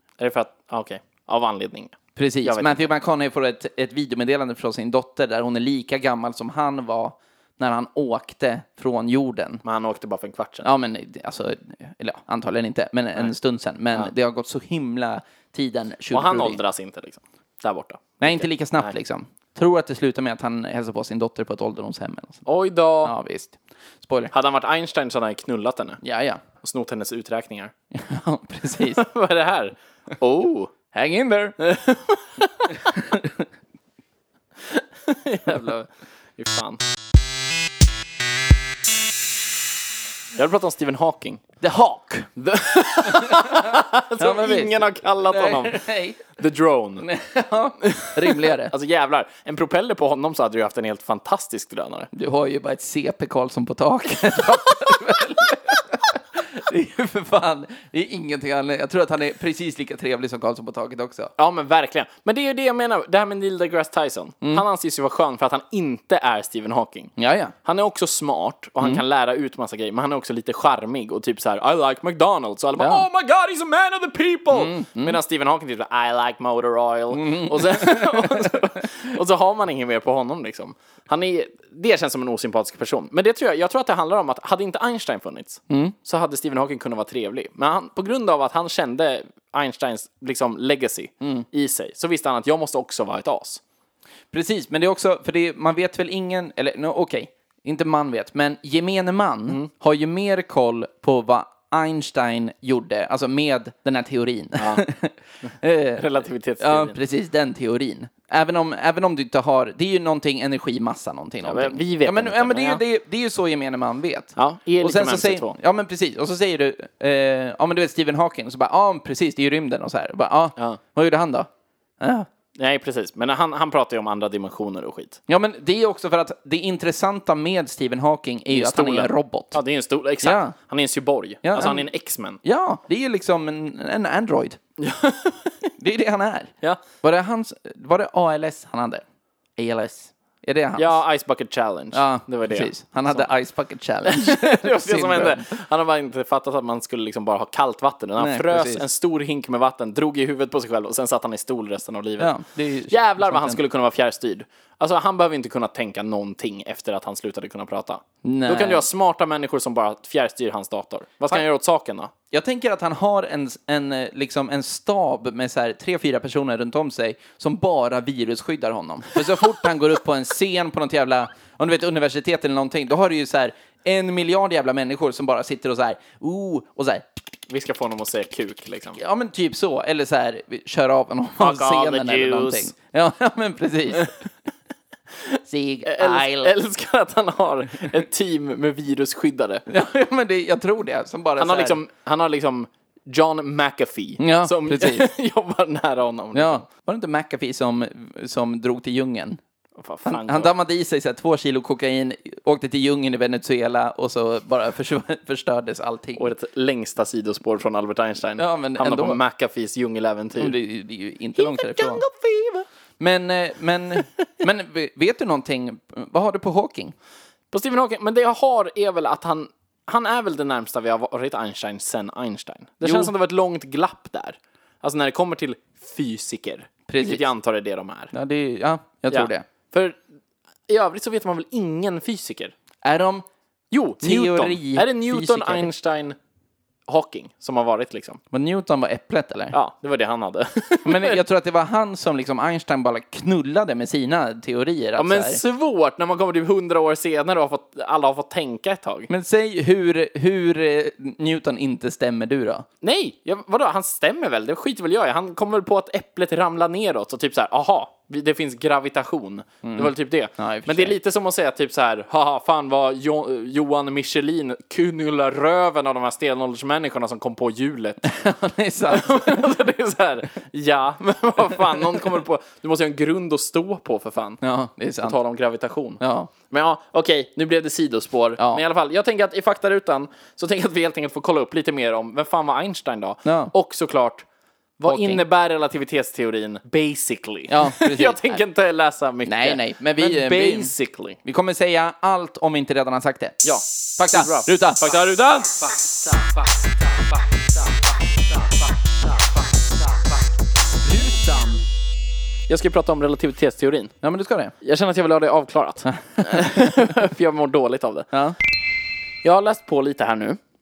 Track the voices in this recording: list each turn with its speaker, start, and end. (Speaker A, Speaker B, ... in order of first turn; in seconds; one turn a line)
Speaker A: 0.2-2.9
Speaker B: 2.2-9.6
Speaker A: 9.7-10.7
Speaker B: 10.6-16.6
Speaker A: 16.1-18.9
Speaker B: 18.2-22.5
Speaker A: 22.5-23.1
Speaker B: 23.0-24.3
Speaker A: 24.3-26.0
Speaker B: 26.0-26.4
Speaker A: 26.6-27.7
Speaker B: 27.9-29.0
Speaker A: 28.8-30.7
Speaker B: 30.9-31.6
Speaker A: 31.6-32.9
Speaker B: 33.0-33.4
Speaker A: 34.7-36.8
Speaker A: 40.3-41.4
Speaker B: 41.6-42.3
Speaker A: 42.4-47.1
Speaker B: 43.1-46.2
Speaker B: 47.0-48.7
Speaker A: 47.8-52.1
Speaker B: 52.1-61.3
Speaker A: 61.4-67.1
Speaker B: 67.2-67.5
Speaker A: 67.7-93.6
Speaker B: 74.5-75.2
Speaker B: 77.1-78.8
Speaker B: 85.7-86.0
Speaker B: 91.2-91.5
Speaker B: 94.3-106.0
Speaker A: 104.6-104.8
Speaker A: 105.4-107.0
Speaker B: 106.6-121.5
Speaker A: 111.4-112.8
Speaker A: 114.4-115.6
Speaker B: 122.0-122.3
Speaker A: 122.6-125.2
Speaker B: 125.3-129.6
Speaker A: 128.5-132.4
Speaker B: 130.2-130.6
Speaker B: 131.4-131.9
Speaker B: 132.4-134.6
Speaker A: 134.8-135.7
Speaker B: 135.8-139.0
Speaker B: 139.6-141.0
Speaker A: 140.8-143.3
Speaker B: 141.9-145.5
Speaker A: 144.1-152.4
Speaker B: 148.2-148.8
Speaker B: 152.2-153.6
Speaker A: 152.9-162.1
Speaker B: 158.2-158.8
Speaker B: 162.3-177.1
Speaker A: 177.5-179.0
Speaker B: 179.0-184.1
Speaker A: 181.4-182.7
Speaker B: 185.4-186.5
Speaker A: 185.9-189.7
Speaker B: 189.7-191.8
Speaker A: 191.4-196.7
Speaker B: 194.2-195.1
Speaker B: 196.3-199.4
Speaker A: 199.8-200.5
Speaker B: 200.1-206.3
Speaker A: 206.2-210.6
Speaker B: 208.4-209.2
Speaker B: 210.4-212.0
Speaker A: 211.4-212.7
Speaker B: 213.0-216.9
Speaker A: 217.5-228.1
Speaker B: 222.8-223.1
Speaker B: 226.9-227.3
Speaker B: 228.1-229.4
Speaker A: 229.1-230.0
Speaker A: 230.7-232.5
Speaker B: 232.8-233.3
Speaker A: 233.7-236.2
Speaker B: 234.0-235.7
Speaker A: 236.9-238.2
Speaker B: 238.3-239.6
Speaker A: 239.5-241.2
Speaker B: 240.8-245.4
Speaker A: 245.0-249.1
Speaker B: 249.1-252.7
Speaker A: 252.8-268.1
Speaker B: 259.6-261.0
Speaker B: 268.0-269.4
Speaker A: 268.9-274.4
Speaker B: 274.4-275.2
Speaker A: 275.0-284.3
Speaker B: 276.0-276.3
Speaker B: 283.2-283.5
Speaker A: 284.8-291.2
Speaker B: 284.9-285.2
Speaker B: 287.5-288.4
Speaker B: 289.2-290.7
Speaker B: 291.2-294.9
Speaker A: 293.4-300.2
Speaker B: 300.9-301.6
Speaker A: 302.5-303.9
Speaker B: 304.0-304.5
Speaker A: 304.6-308.1
Speaker B: 305.9-306.8
Speaker B: 308.1-308.4
Speaker A: 309.2-310.4